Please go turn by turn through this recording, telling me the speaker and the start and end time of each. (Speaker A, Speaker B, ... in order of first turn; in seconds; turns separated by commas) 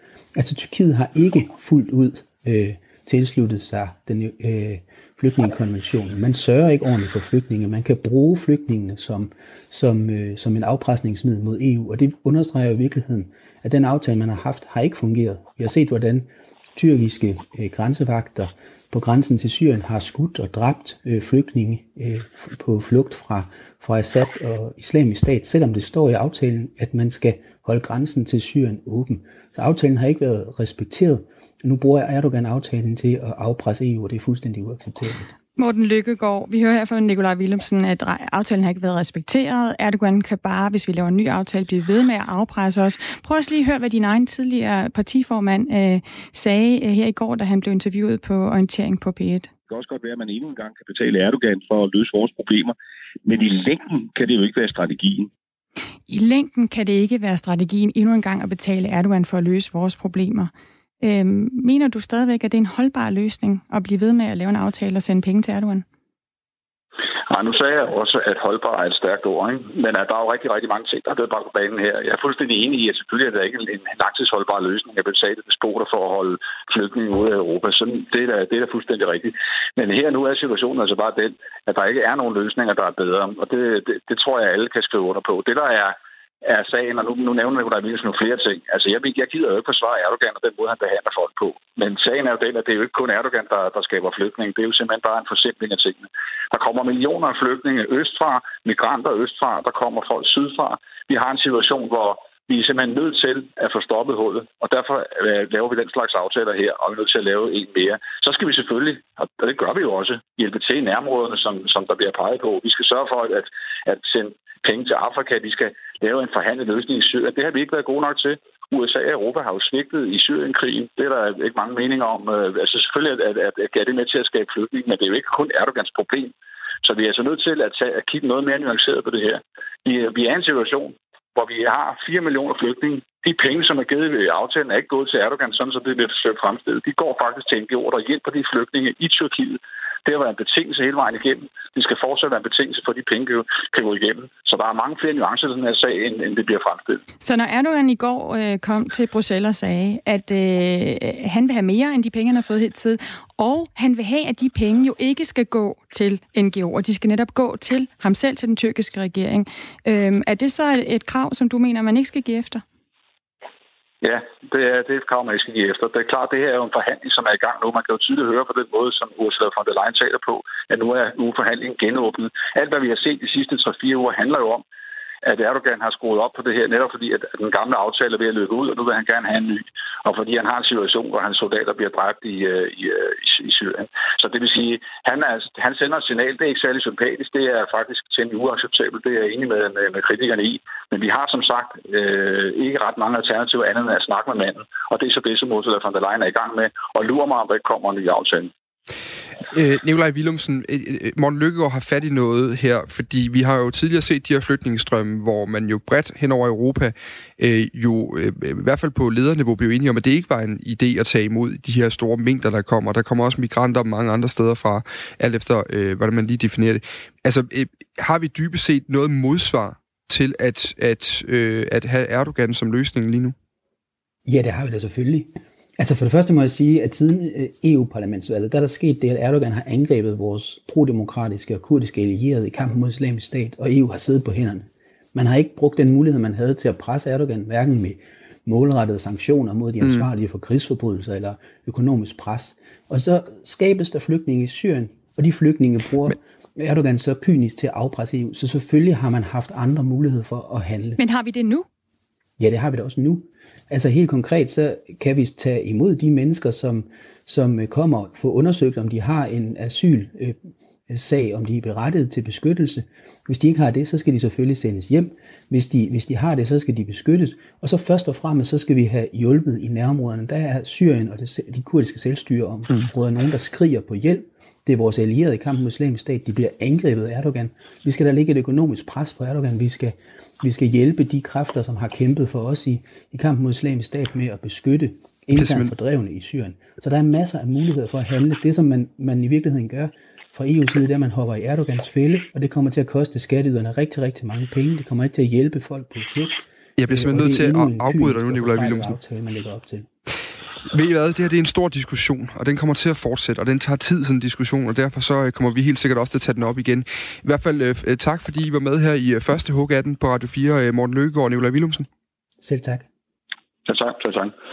Speaker A: 0.3-35.2, Speaker B: 35.6-49.5, Speaker C: 49.7-55.3, Speaker B: 56.1-65.8, Speaker D: 67.3-147.0, Speaker B: 147.2-162.6, Speaker D: 164.0-174.6, Speaker D: 175.2-198.5, Speaker E: 199.5-223.4, Speaker A: 224.3-251.0, Speaker B: 251.0-251.7, Speaker A: 252.4-260.4, Speaker A: 260.9-299.9, Speaker E: 285.3-285.7, Speaker E: 296.8-299.0, Speaker E: 300.7-311.9, Speaker A: 312.4-312.9, Speaker D: 313.7-314.3